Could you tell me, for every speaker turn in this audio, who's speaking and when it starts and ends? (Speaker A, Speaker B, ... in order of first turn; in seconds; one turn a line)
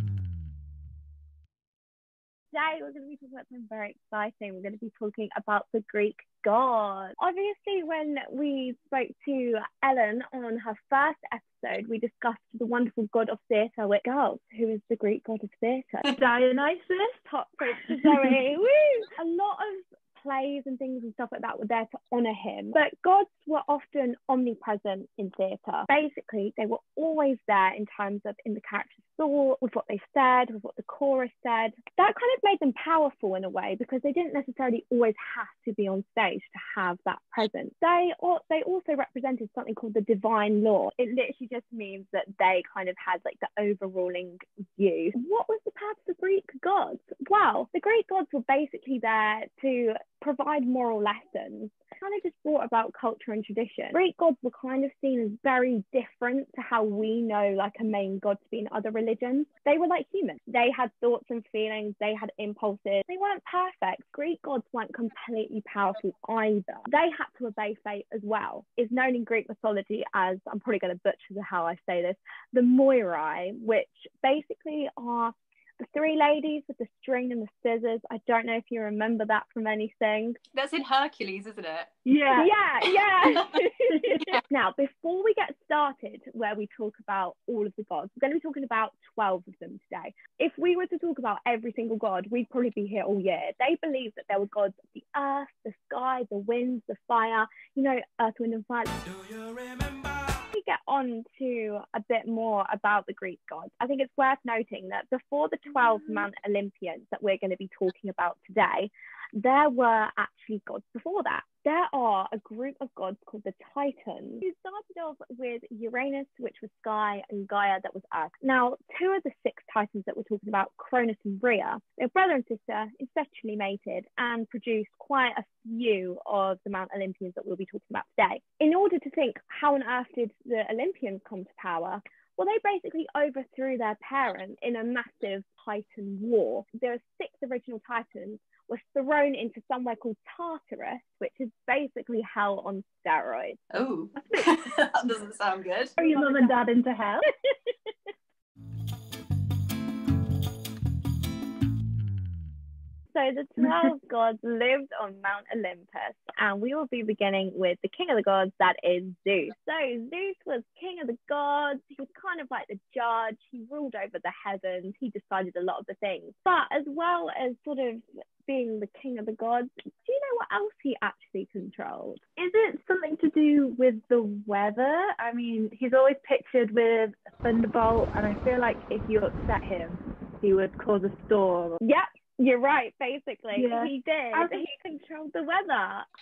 Speaker A: 2.5-16.1
Speaker B: 16.0-18.3
Speaker A: 17.3-80.4
Speaker C: 80.5-81.9
Speaker B: 82.0-82.5
Speaker A: 82.3-98.9
Speaker B: 83.8-84.3
Speaker A: 100.5-143.6
Speaker C: 143.7-145.9
Speaker B: 144.2-144.5
Speaker B: 146.0-147.3
Speaker A: 146.0-146.6
Speaker A: 147.4-147.7
Speaker A: 153.1-172.2
Speaker B: 172.3-181.8
Speaker A: 181.8-186.1
Speaker B: 183.5-184.6